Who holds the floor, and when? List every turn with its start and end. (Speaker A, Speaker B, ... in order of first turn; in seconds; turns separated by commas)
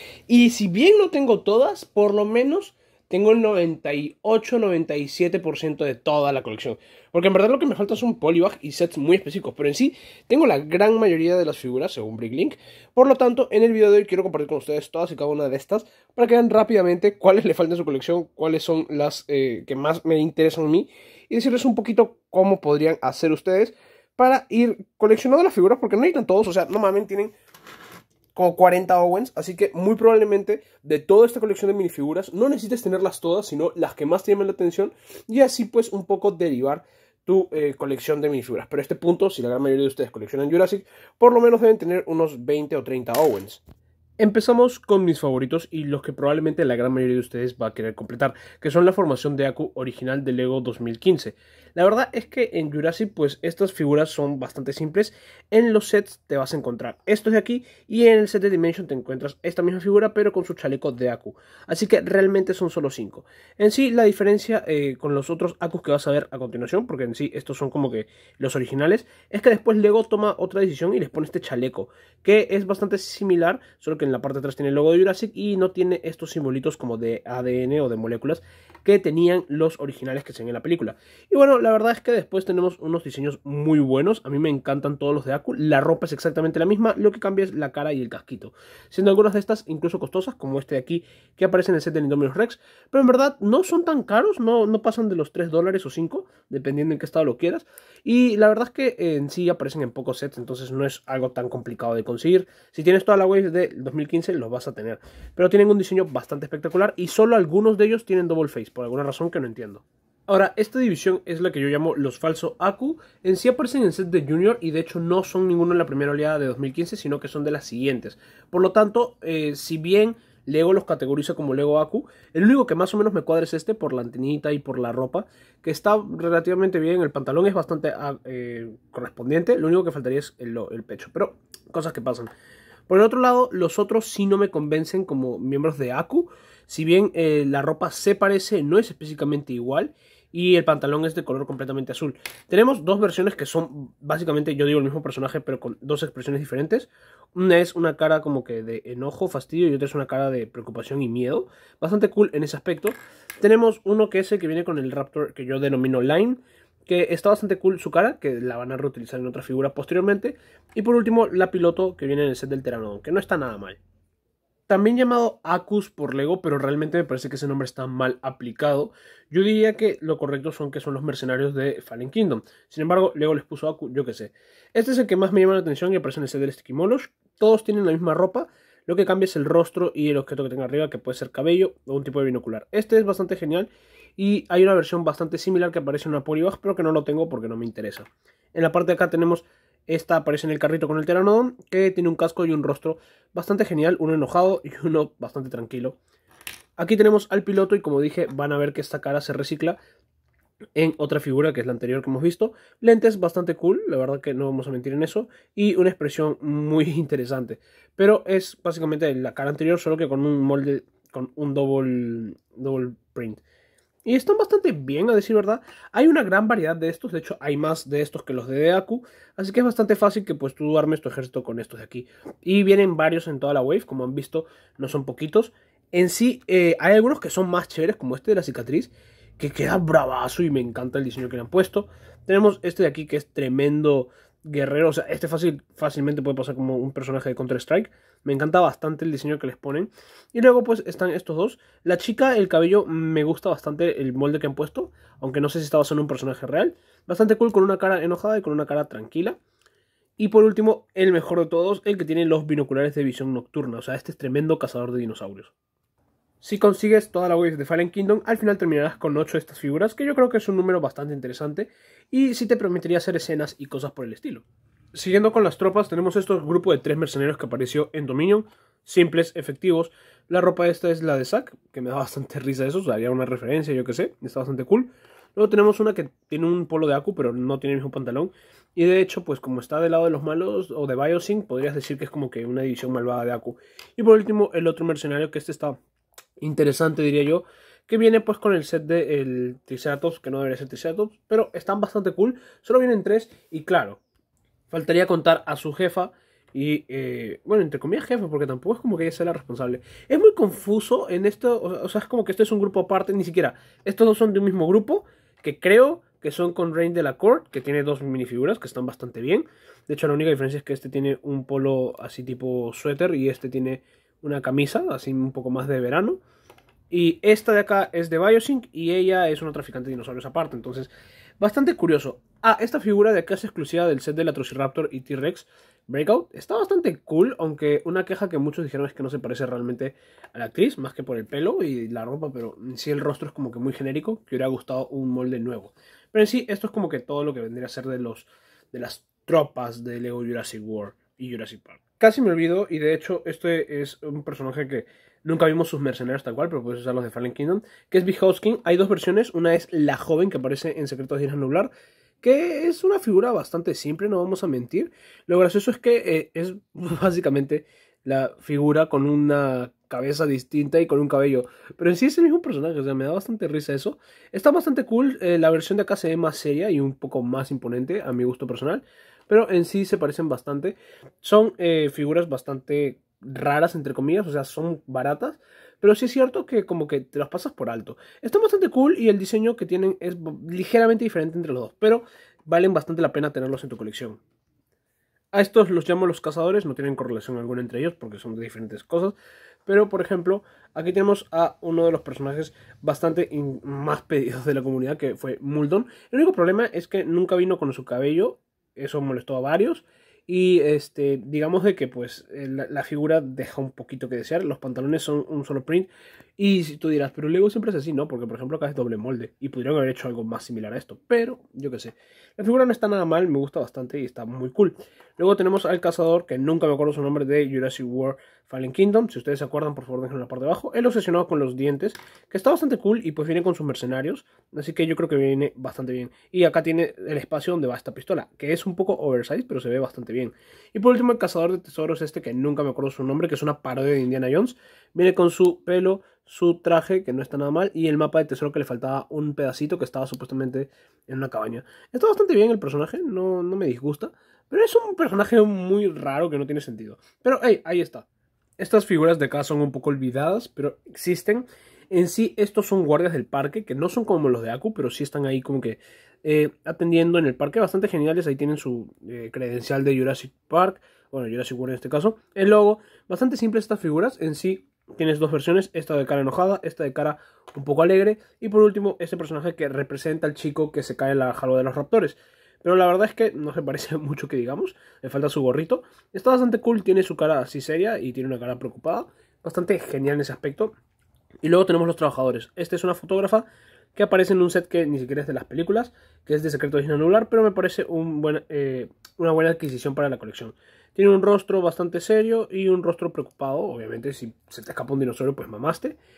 Speaker A: 0.3-27.4, Speaker A: 28.4-43.6, Speaker A: 44.2-132.3, Speaker A: 132.9-163.8, Speaker A: 164.7-196.0, Speaker A: 196.8-199.8, Speaker A: 200.8-213.4, Speaker A: 214.1-249.4, Speaker A: 250.2-255.5, Speaker A: 256.4-285.8, Speaker A: 286.4-294.0, Speaker A: 294.7-316.2, Speaker A: 316.9-351.7, Speaker A: 352.2-384.2, Speaker A: 385.3-448.1, Speaker A: 448.6-480.7, Speaker A: 481.4-496.0